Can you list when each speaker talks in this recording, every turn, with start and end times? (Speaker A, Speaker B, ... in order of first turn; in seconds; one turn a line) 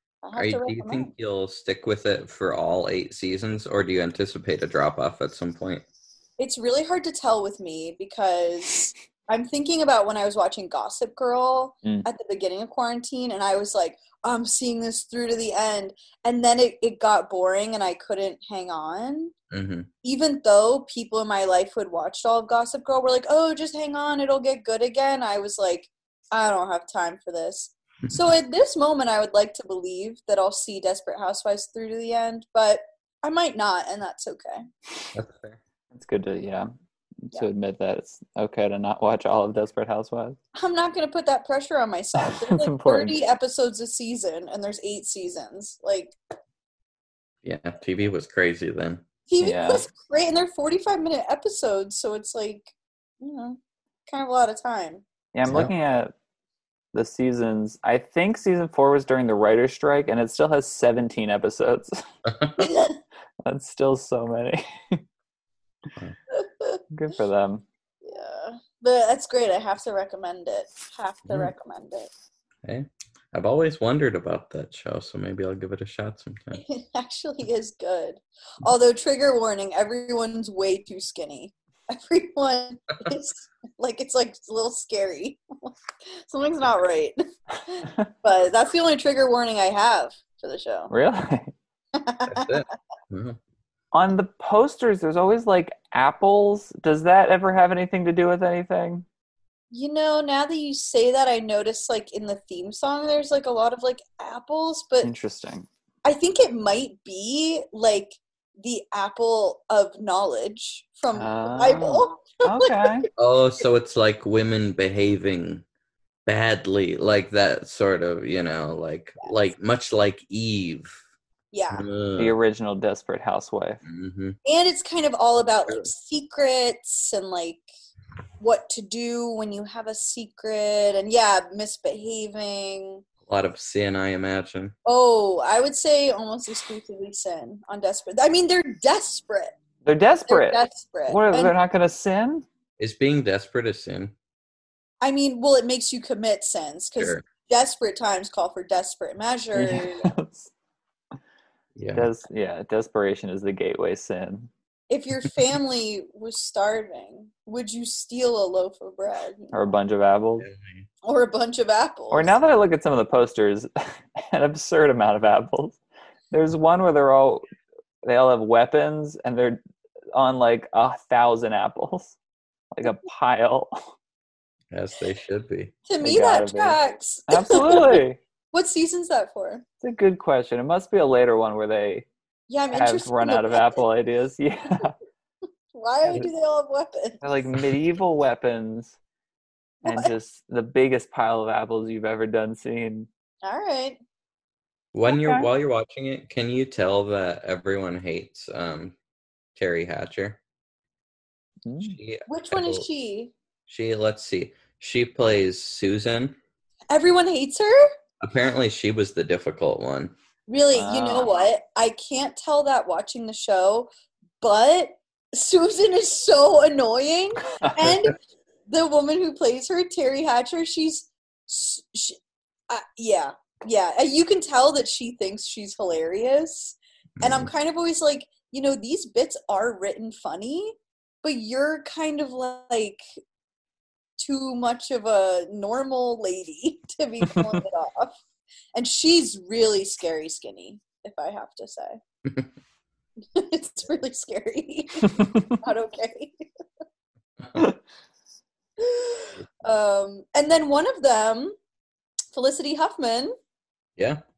Speaker A: 0.2-1.1
Speaker B: 0.3-5.8
Speaker A: 6.4-19.3
Speaker B: 19.5-19.9
Speaker A: 20.0-34.6
Speaker B: 35.1-35.6
Speaker C: 35.9-36.7
Speaker C: 37.2-40.4
Speaker A: 40.5-46.2
Speaker C: 42.2-43.1
Speaker B: 47.4-49.0
Speaker A: 49.3-55.0
Speaker C: 49.4-49.9
Speaker C: 55.3-56.1
Speaker B: 55.5-55.7
Speaker C: 56.9-62.0
Speaker B: 62.3-62.6
Speaker A: 62.6-63.0
Speaker C: 63.5-65.0
Speaker A: 66.3-66.8
Speaker C: 66.9-67.6
Speaker A: 68.0-72.1
Speaker B: 72.6-76.6
Speaker A: 76.5-90.9
Speaker C: 87.8-88.1
Speaker C: 90.9-91.5
Speaker A: 91.9-92.6
Speaker B: 92.3-93.4
Speaker C: 93.9-99.0
Speaker A: 99.7-105.1
Speaker C: 105.0-105.7
Speaker A: 106.0-113.1
Speaker C: 111.1-113.1
Speaker B: 113.2-115.6
Speaker B: 116.2-121.0
Speaker A: 121.5-121.8
Speaker B: 121.7-122.3
Speaker C: 122.2-123.8
Speaker B: 123.8-124.4
Speaker A: 124.4-127.7
Speaker A: 128.4-133.0
Speaker B: 133.3-134.7
Speaker A: 134.8-139.5
Speaker C: 139.8-142.4
Speaker A: 140.3-141.5
Speaker B: 142.8-144.1
Speaker A: 145.0-150.1
Speaker C: 149.5-150.5
Speaker B: 151.8-152.1
Speaker C: 151.9-154.5
Speaker A: 154.9-159.6
Speaker C: 159.5-160.5
Speaker B: 160.4-160.8
Speaker A: 161.0-162.3
Speaker C: 162.1-165.8
Speaker C: 166.3-167.4
Speaker C: 168.0-169.6
Speaker C: 170.1-172.2
Speaker C: 172.7-173.8
Speaker B: 174.7-175.7
Speaker A: 175.8-179.6
Speaker C: 176.0-178.2
Speaker C: 179.8-182.1
Speaker A: 182.5-183.8
Speaker C: 182.7-184.9
Speaker A: 185.7-187.2
Speaker C: 186.0-186.3
Speaker C: 187.2-188.9
Speaker C: 189.8-193.1
Speaker A: 189.8-190.1
Speaker A: 193.4-194.0
Speaker B: 194.9-198.9
Speaker C: 195.1-195.5
Speaker B: 199.6-200.4
Speaker C: 201.6-202.0
Speaker B: 201.8-202.8
Speaker A: 202.3-203.3
Speaker B: 203.7-206.3
Speaker A: 206.9-207.8
Speaker B: 208.2-210.1
Speaker A: 210.5-213.9
Speaker C: 210.7-211.3
Speaker A: 214.4-218.2
Speaker A: 218.7-222.2
Speaker A: 222.7-233.0
Speaker B: 227.2-227.5
Speaker A: 234.2-238.2
Speaker A: 238.7-242.0
Speaker A: 243.3-246.4
Speaker C: 245.1-245.6
Speaker A: 248.8-251.6
Speaker A: 252.3-253.3